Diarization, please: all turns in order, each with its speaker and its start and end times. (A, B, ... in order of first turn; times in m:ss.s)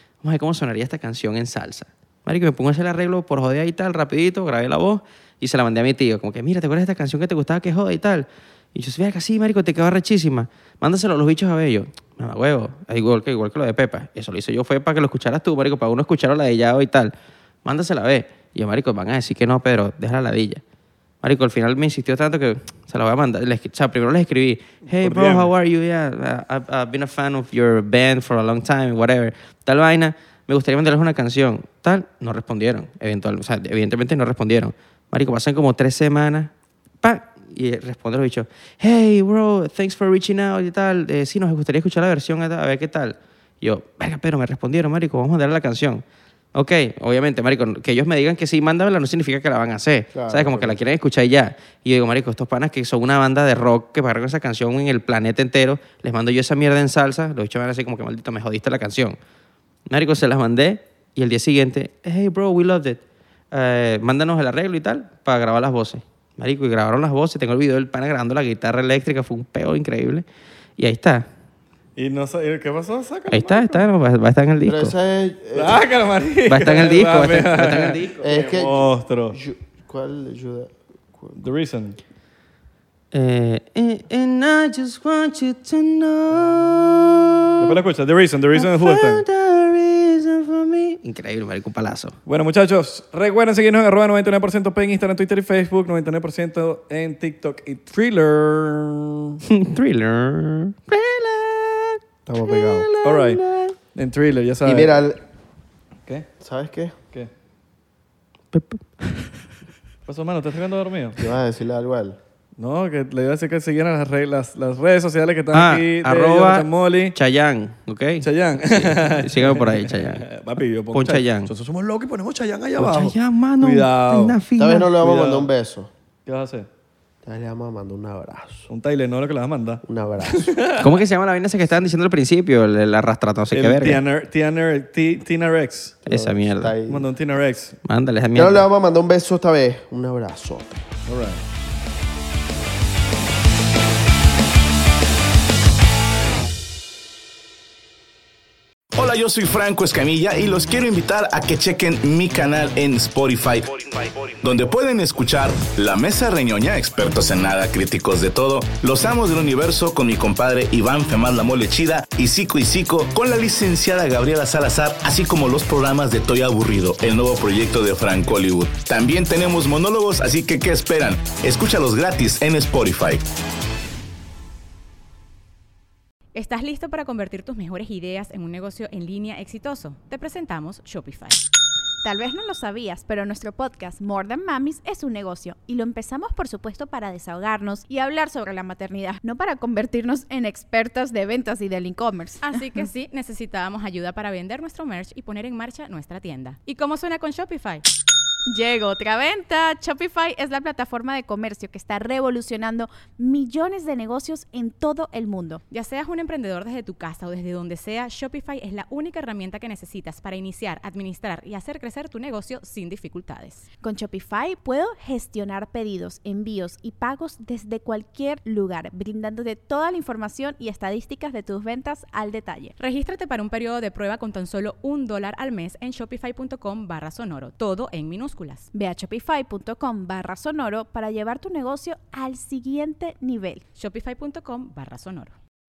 0:00.2-0:17.1 A
0:17.6-0:20.6 A
0:21.2-0:59.2 A
0:24.9-0:25.5 B
0:50.1-0:50.8 C
0:59.9-1:03.0 A
1:03.5-1:10.2 A
1:10.8-1:11.3 A
1:12.0-1:13.9 B
1:13.3-1:15.0 A
1:14.7-1:15.8 C
1:15.6-1:19.4 B
1:16.5-1:18.4 A
1:18.2-1:21.4 C
1:21.4-1:22.0 B
1:23.1-1:27.7 A
1:27.6-1:29.2 B
1:28.5-1:32.2 A
1:32.3-1:39.4 B
1:39.5-1:43.8 A
1:42.3-1:42.9 C
1:43.0-1:43.4 B
1:43.9-1:45.0 B
1:44.6-1:45.2 C
1:46.4-1:47.0 C
1:48.5-1:49.3 A
1:50.1-1:51.2 B
1:51.2-1:52.2 C
1:52.6-1:57.2 B
1:55.5-2:00.2 A
1:58.2-2:04.4 B
2:00.9-2:01.5 A
2:02.8-2:04.9 A
2:04.6-2:05.9 C
2:05.0-2:05.5 B
2:06.3-2:06.7 B
2:07.2-2:08.7 C
2:08.7-2:11.0 B
2:09.8-2:10.6 C
2:10.8-2:14.0 A
2:13.5-2:16.0 B
2:16.1-2:17.1 C
2:16.1-2:16.7 A
2:16.9-2:17.8 B
2:17.8-2:18.6 A
2:18.4-2:20.8 C
2:21.1-2:21.4 B
2:28.9-2:53.3 D
2:56.3-3:01.4 E
3:02.0-3:12.9 F
3:12.4-3:17.8 E
3:18.5-3:25.6 F
3:25.7-3:33.7 E
3:33.8-3:42.7 F
3:42.8-3:48.7 E
3:48.7-3:53.6 F
3:53.8-3:55.4 E